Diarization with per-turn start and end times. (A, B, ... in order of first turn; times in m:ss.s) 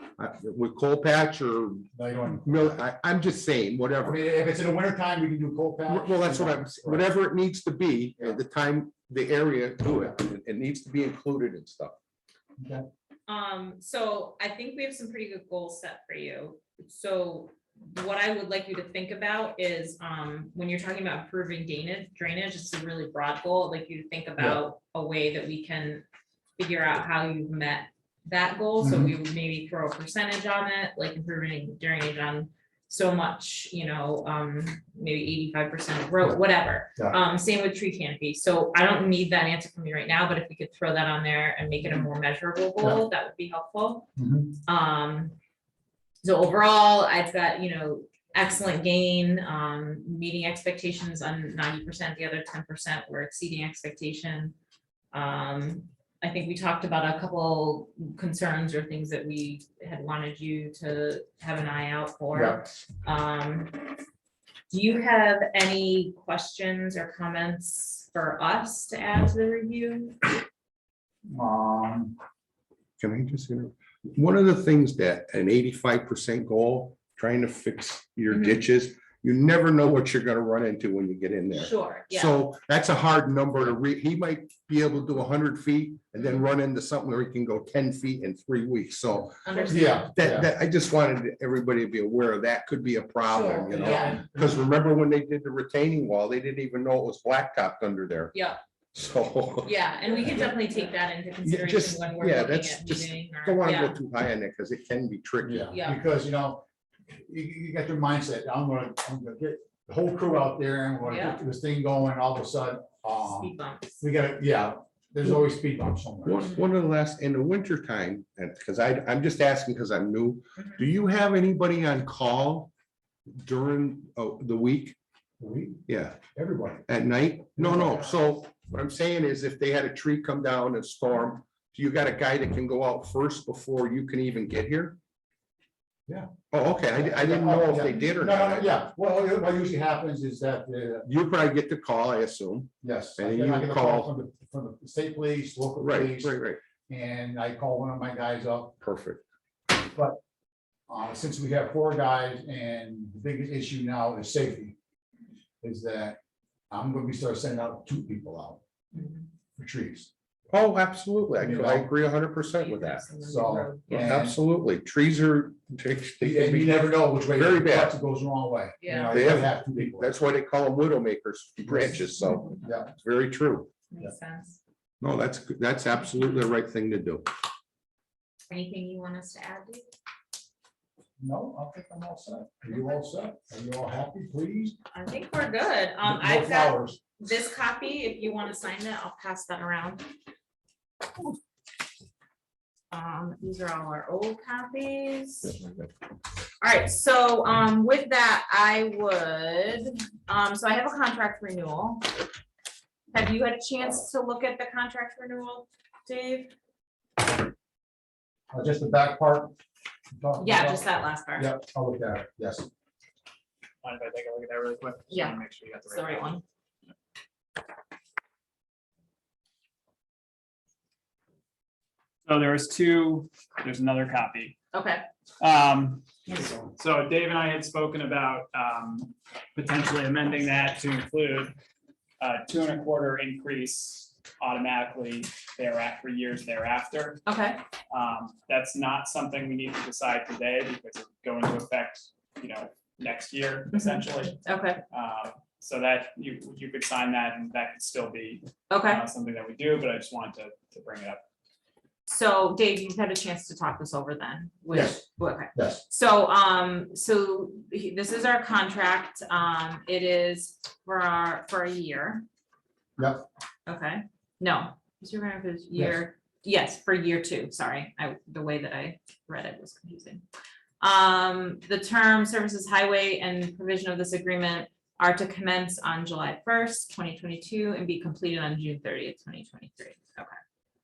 0:00.2-0:04.2 A
0:02.0-0:02.8 B
0:04.0-0:07.1 B
0:05.9-0:12.0 A
0:09.8-0:10.2 B
0:12.6-0:12.8 B
0:13.3-0:26.0 C
0:26.6-0:44.1 C
0:28.8-0:29.1 B
0:44.2-0:44.6 B
0:44.7-0:45.3 C
0:46.2-0:54.5 C
0:55.1-1:03.9 C
1:02.3-1:02.7 B
1:04.7-1:10.4 C
1:11.3-1:12.1 B
1:13.0-1:38.3 A
1:18.3-1:18.6 C
1:21.5-1:22.4 C
1:29.4-1:30.1 C
1:29.7-1:30.5 B
1:33.3-1:34.2 C
1:33.7-1:34.6 B
1:38.3-1:38.6 C
1:38.9-1:40.5 A
1:39.6-1:44.0 C
1:41.4-1:45.7 A
1:45.4-1:56.4 B
1:45.7-1:46.0 C
1:51.0-1:51.4 C
1:53.2-1:54.0 C
1:56.2-2:02.7 A
2:00.6-2:00.8 C
2:03.3-2:05.0 A
2:05.4-2:05.8 B
2:05.9-2:06.2 A
2:06.4-2:06.9 B
2:06.9-2:15.0 A
2:07.6-2:08.2 B
2:16.5-2:18.7 A
2:16.9-2:21.1 B
2:21.0-2:24.1 A
2:22.8-2:26.4 B
2:25.8-2:26.6 A
2:26.9-2:28.7 B
2:28.8-2:29.2 A
2:29.7-2:30.2 B
2:30.9-2:34.8 B
2:35.6-2:36.2 B
2:36.7-2:38.6 B
2:38.9-2:39.2 C
2:39.6-2:40.1 B
2:40.5-2:43.0 A
2:41.4-2:41.9 B
2:42.5-2:44.2 C
2:43.2-2:44.4 B
2:43.9-2:48.0 A
2:46.2-2:50.1 B
2:48.8-2:49.2 C
2:49.1-2:53.7 A
2:51.7-2:52.0 B
2:52.6-2:52.9 B
2:53.9-2:54.6 C
2:55.0-2:57.3 A
2:58.5-2:59.8 C
3:01.2-3:04.7 B
3:04.9-3:10.1 C
3:06.0-3:07.0 B
3:12.9-3:15.8 C
3:16.6-3:22.2 C
3:23.1-3:26.5 C
3:28.5-3:29.5 B
3:30.1-3:30.8 B
3:30.4-3:31.5 C
3:31.4-3:32.7 B
3:33.8-3:36.4 D
3:35.1-3:36.4 C
3:42.2-3:44.6 D
3:44.7-3:45.0 C
3:45.4-3:51.5 D
3:52.2-3:57.2 D
3:57.2-3:57.6 C
3:57.9-4:11.2 D
4:03.7-4:04.8 C
4:08.7-4:09.0 C
4:12.0-4:22.2 C
4:14.7-4:15.0 B
4:15.5-4:15.8 B
4:23.0-4:23.2 B
4:23.7-4:30.2 C
4:25.8-4:26.0 B
4:30.8-4:40.4 C